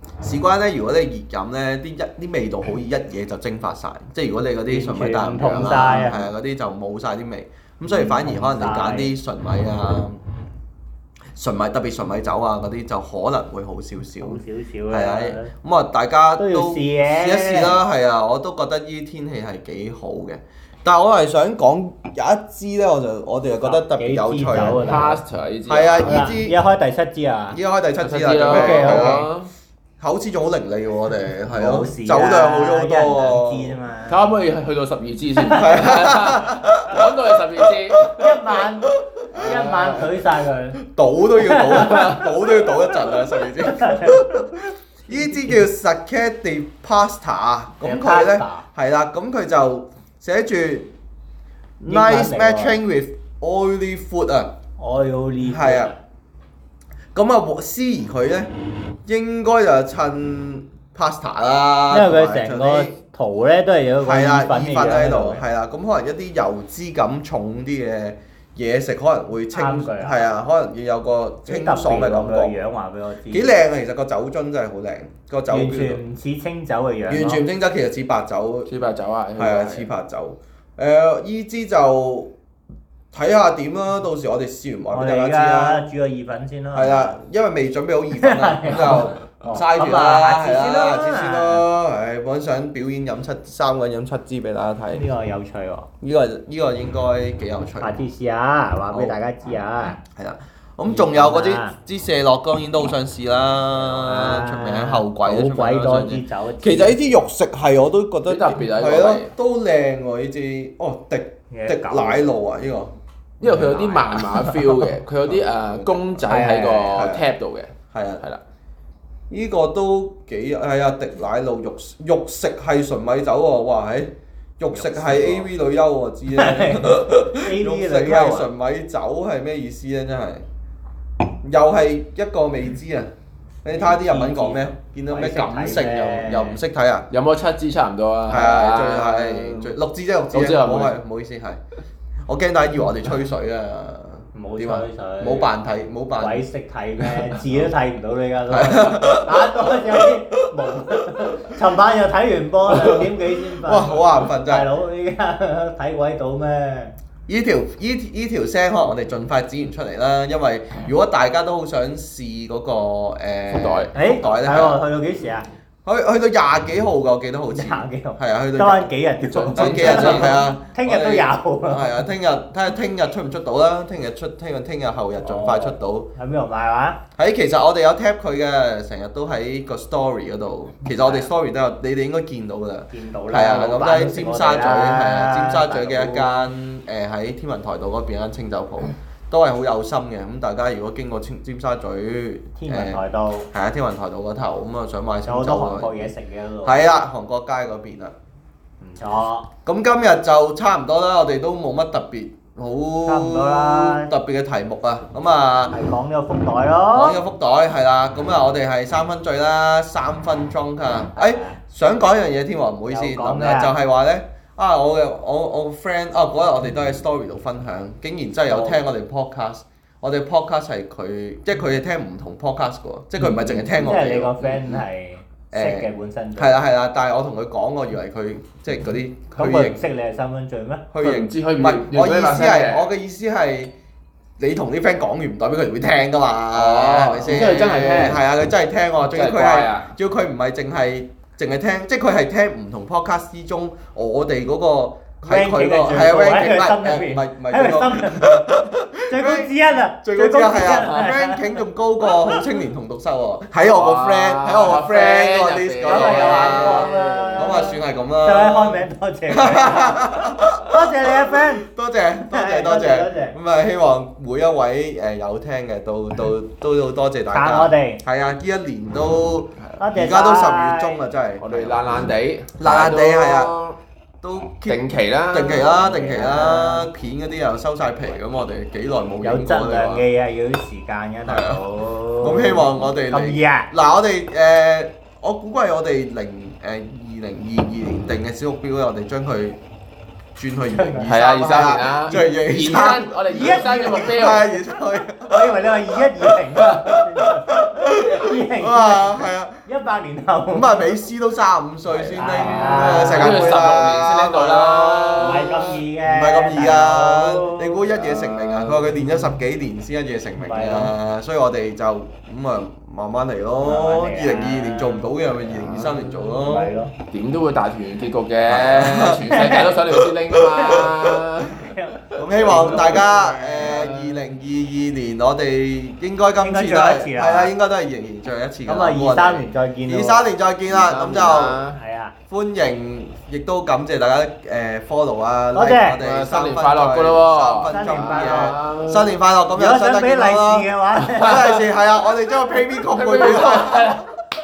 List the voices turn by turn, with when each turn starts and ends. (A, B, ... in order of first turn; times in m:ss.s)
0:00.2-0:10.2 A
0:04.7-0:06.3 B
0:07.9-0:09.1 B
0:11.4-0:24.9 A
0:14.2-0:15.5 B
0:16.4-0:17.8 B
0:23.6-0:25.2 B
0:24.5-0:26.3 C
0:25.7-0:26.6 A
0:26.0-0:27.6 B
0:27.5-0:29.3 A
0:28.0-0:29.5 C
0:28.5-0:29.3 B
0:30.0-0:33.8 A
0:31.5-0:34.3 B
0:34.1-0:38.3 C
0:35.4-0:38.3 A
0:38.1-0:40.8 B
0:39.0-0:39.7 A
0:39.3-0:40.2 C
0:40.8-0:50.9 A
0:41.4-0:42.8 B
0:43.6-0:45.5 B
0:47.8-0:48.7 B
0:51.8-0:52.8 B
0:51.8-0:54.5 A
0:54.8-0:56.0 B
0:55.4-0:55.9 A
0:57.1-0:58.5 A
0:59.0-1:03.0 A
1:01.9-1:05.4 B
1:04.0-1:12.6 A
1:09.5-1:10.2 B
1:11.5-1:13.5 B
1:13.3-1:16.0 A
1:15.5-1:17.4 B
1:17.1-1:18.7 A
1:18.7-1:19.9 C
1:19.4-1:22.3 A
1:23.1-1:25.9 A
1:24.9-1:27.2 B
1:26.7-1:35.1 A
1:28.2-1:31.6 B
1:34.9-1:35.9 B
1:36.0-1:38.0 A
1:37.8-1:40.0 B
1:38.9-1:39.2 A
1:40.1-1:54.3 A
1:40.9-1:41.8 B
1:43.8-1:47.0 B
1:48.3-1:49.4 C
1:51.5-1:52.3 B
1:53.4-1:58.4 C
1:53.5-1:54.6 B
1:55.3-1:56.2 A
1:56.2-1:57.1 B
1:56.9-1:57.2 A
1:57.9-1:58.2 A
1:59.3-2:10.5 A
2:04.7-2:05.5 B
2:06.4-2:08.5 B
2:11.4-2:13.1 A
2:13.6-2:17.1 A
2:13.7-2:16.6 B
2:17.1-2:19.8 C
2:18.3-2:21.6 A
2:20.3-2:21.0 C
2:22.3-2:26.4 A
2:24.3-2:25.5 B
2:26.2-2:37.0 B
2:27.0-2:27.6 A
2:28.5-2:31.1 A
2:33.6-2:34.7 A
2:37.3-2:44.8 A
2:43.5-2:43.9 C
2:43.9-2:45.5 B
2:45.8-2:48.9 A
2:47.5-2:52.0 B
2:49.2-2:50.5 C
2:49.5-2:56.1 A
2:55.2-2:57.0 B
2:57.2-3:13.0 A
3:00.9-3:01.3 B
3:02.9-3:06.5 B
3:12.6-3:13.5 B
3:13.5-3:16.1 A
3:15.3-3:16.8 B
3:16.6-3:18.2 A
3:18.8-3:19.5 B
3:19.6-3:25.8 A
3:23.0-3:24.1 B
3:25.7-3:27.2 B
3:26.9-3:44.4 A
3:31.2-3:31.6 B
3:32.9-3:33.7 B
3:38.5-3:38.8 B
3:43.2-3:43.7 C
3:43.8-3:46.6 B
3:45.5-3:49.8 A
3:49.4-3:50.9 B
3:50.9-3:53.7 A
3:51.0-3:52.9 C
3:54.4-4:33.6 A
3:56.5-3:58.2 C
3:59.1-3:59.9 C
4:05.2-4:08.6 B
4:09.1-4:12.3 B
4:13.6-4:17.7 C
4:15.8-4:21.7 B
4:22.2-4:23.4 B
4:27.3-4:28.0 B
4:29.8-4:31.0 B
4:31.4-4:33.8 C
4:34.2-4:40.0 A
4:34.7-4:36.5 C
4:36.0-4:36.9 B
4:39.2-4:43.7 B
4:41.3-4:41.6 A
4:42.2-4:49.6 A
4:50.4-4:53.2 A
4:50.7-4:51.1 B
4:51.0-4:54.5 C
4:51.7-4:54.5 B
4:54.0-4:59.6 A
4:55.3-5:01.0 B
5:00.5-5:16.7 A
5:01.9-5:05.8 C
5:02.1-5:03.5 B
5:05.2-5:07.8 B
5:07.8-5:09.1 C
5:10.4-5:10.9 B
5:13.6-5:15.1 B
5:15.6-5:16.4 C
5:16.5-5:16.9 B
5:17.1-5:24.2 C
5:18.5-5:21.2 A
5:19.3-5:19.8 B
5:21.5-5:23.8 B
5:22.2-5:31.6 A
5:26.4-5:27.5 B
5:28.7-5:30.3 B
5:30.7-5:31.8 C
5:31.7-5:32.2 B
5:32.3-5:44.1 A
5:35.5-5:36.0 B
5:36.0-5:39.2 C
5:37.7-5:38.6 B
5:39.5-5:41.7 B
5:42.8-5:44.0 C